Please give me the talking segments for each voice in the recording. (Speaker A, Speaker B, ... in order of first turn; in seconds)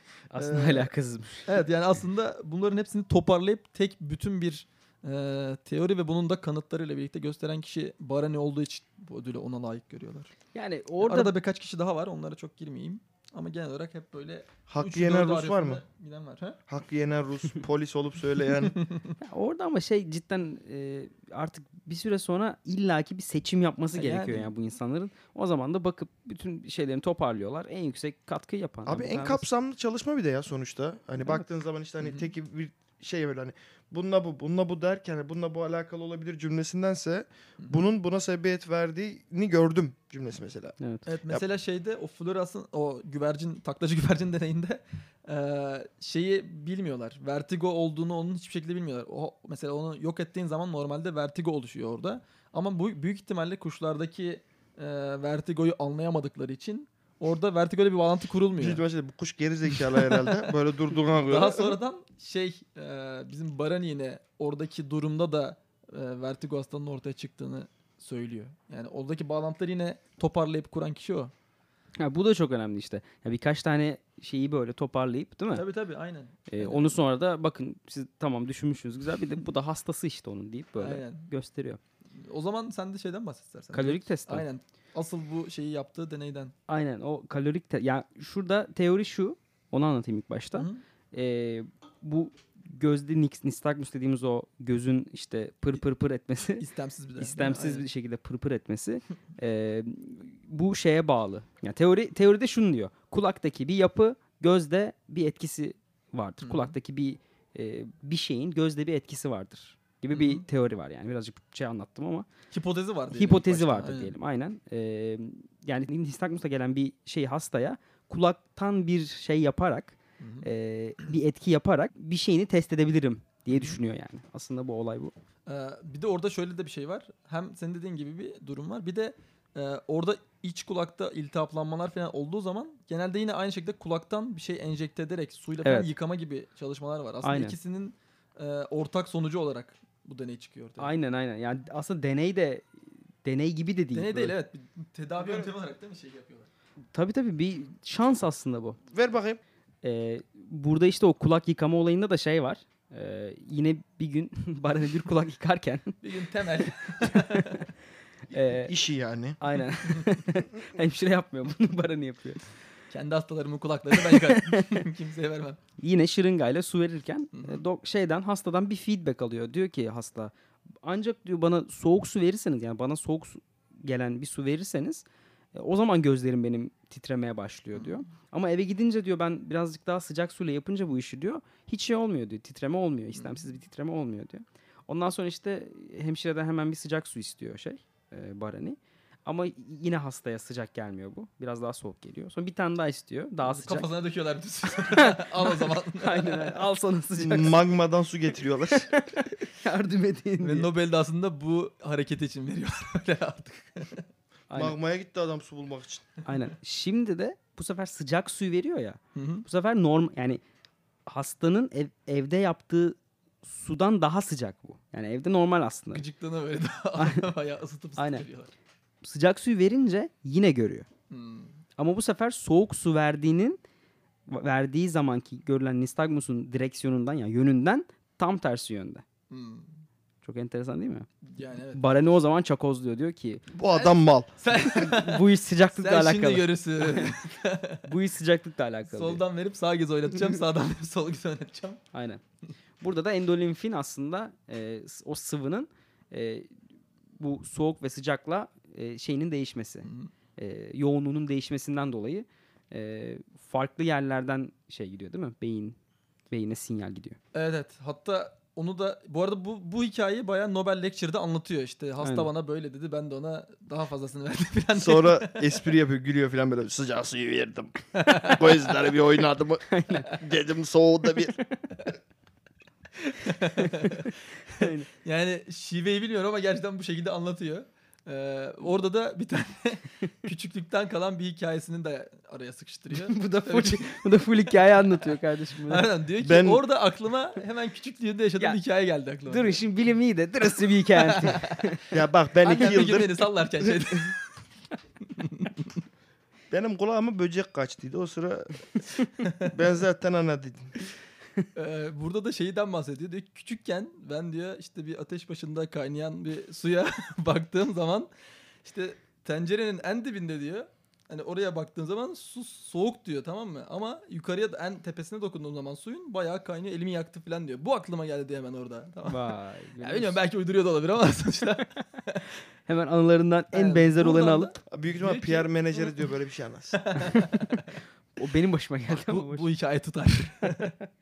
Speaker A: 0.3-1.5, 10.5-11.3, 19.2-29.4, 40.8-41.0, 72.0-75.7, 76.5-81.8, 83.7-84.5, 86.7-96.6, 97.2-112.3, 113.2-125.1, 135.6-135.9, 137.2-137.6, 140.8-142.7, 143.2-144.3, 146.9-148.8, 149.8-156.0, 157.1-157.6, 158.3-158.7, 159.4-162.4, 164.0-164.6, 165.8-193.9, 194.9-197.6, 198.9-200.7, 204.5-204.8, 206.3-210.4, 211.1-216.0, 217.0-217.2, 218.0-218.3, 219.0-220.9, 221.8-223.6, 224.3-229.0, 230.2-231.1, 231.7-233.4, 234.7-237.1, 237.8-239.2, 241.9-242.2, 242.8-246.5, 247.2-255.8, 256.3-257.2, 262.0-262.3, 269.7-270.2, 273.6-274.9, 282.9-285.9, 289.3-291.8, 319.1-320.2, 322.7-324.5, 327.2-327.5, 328.2-329.5
Speaker B: 0.4-0.9, 1.4-10.3, 11.0-16.6, 18.8-19.1, 23.9-24.5, 32.0-32.3, 41.1-58.8, 59.8-60.3, 61.1-71.3, 75.5-76.9, 80.8-81.3, 82.2-86.5, 90.5-90.8, 96.6-97.9, 106.4-106.8, 110.1-110.4, 112.5-114.2, 120.2-120.5, 123.5-123.8, 125.5-140.9, 143.9-146.5, 156.0-157.7, 159.8-160.2, 162.9-165.6, 167.4-167.6, 177.7-178.0, 183.2-183.5, 193.4-196.6, 200.4-204.1, 209.2-209.5, 215.9-218.5, 221.1-221.6, 229.3-229.8, 231.2-231.8, 233.7-237.9, 238.9-241.8, 249.8-250.1, 257.3-265.6, 267.9-268.6, 273.1-283.9, 284.4-285.1, 285.7-289.7, 290.6-291.7, 292.4-294.2, 295.2-295.5, 299.2-299.6, 301.6-308.1, 308.6-322.3, 323.5-326.0, 326.7-327.8, 328.9-330.7
Speaker C: 14.7-15.8, 16.7-18.8, 28.9-40.8, 58.6-61.8, 148.9-149.4, 158.5-159.4, 197.2-199.0, 204.6-206.1, 233.5-234.3, 264.8-271.4, 286.2-286.6, 291.9-293.8, 296.5-298.7, 299.5-300.7, 324.7-326.8